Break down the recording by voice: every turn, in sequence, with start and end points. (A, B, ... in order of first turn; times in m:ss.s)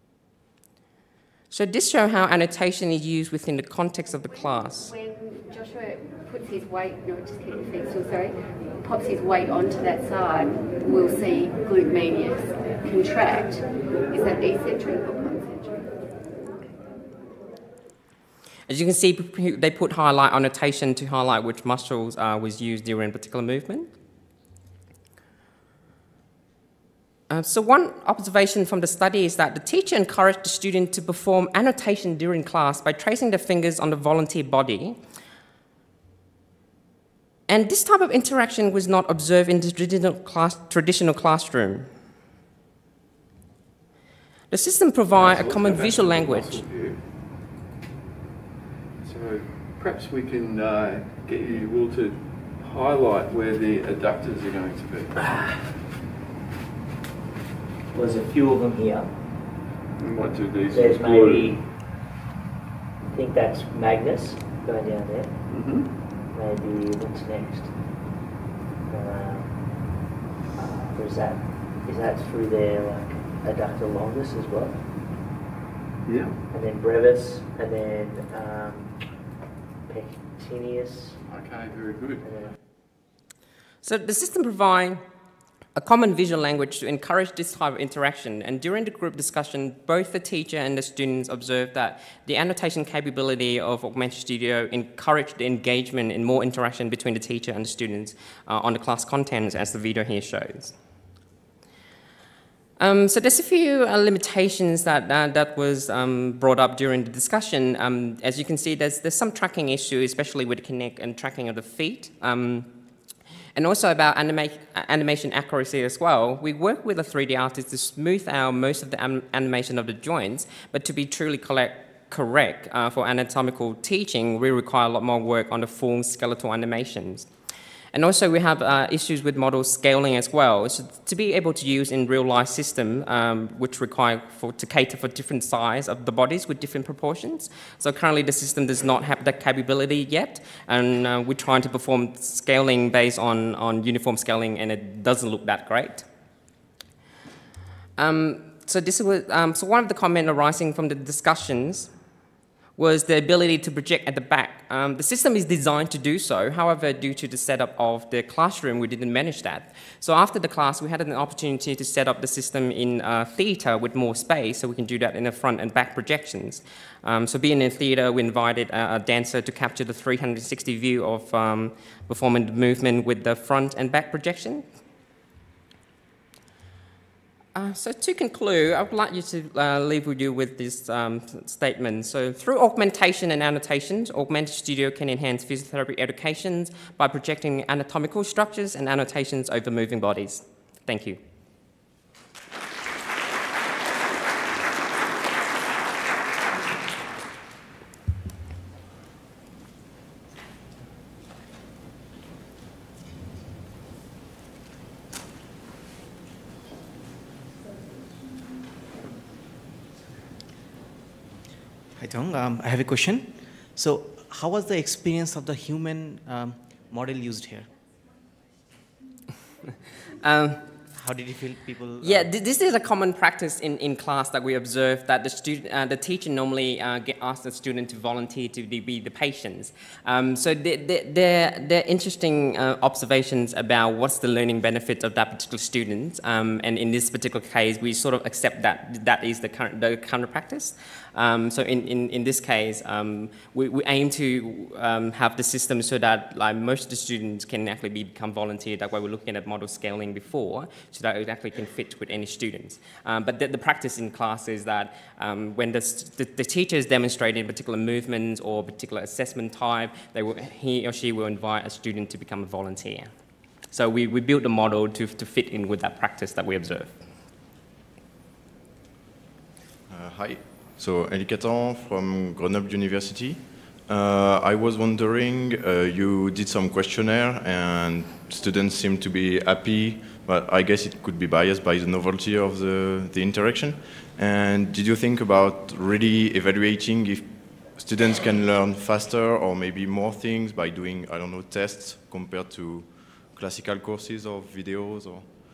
0:01.5-0:04.9 A
0:04.9-0:15.8 B
0:18.7-0:23.9 A
0:27.3-0:35.0 A
0:37.5-0:41.9 A
0:44.5-0:46.6 A
0:45.1-0:47.0 C
0:49.0-0:55.2 C
0:57.9-0:59.1 D
1:00.0-1:01.5 C
1:00.7-1:01.7 D
1:03.1-1:05.4 D
1:05.5-1:05.9 C
1:06.2-1:07.7 D
1:08.9-1:09.9 D
1:10.6-1:14.8 D
1:16.0-1:16.4 C
1:16.5-1:18.9 D
1:19.9-1:21.2 D
1:21.3-1:22.2 C
1:22.2-1:22.5 D
1:23.8-1:25.0 A
1:25.7-1:40.7 A
1:42.8-1:52.7 A
1:53.6-2:07.3 A
2:07.9-2:26.0 A
2:28.0-2:31.9 A
2:32.8-2:54.6 A
2:57.5-3:11.2 A
3:32.1-3:37.4 E
3:40.2-3:40.6 A
3:41.0-3:41.7 E
3:42.0-4:23.1 A
4:23.7-4:27.0 A
4:29.9-4:55.2 F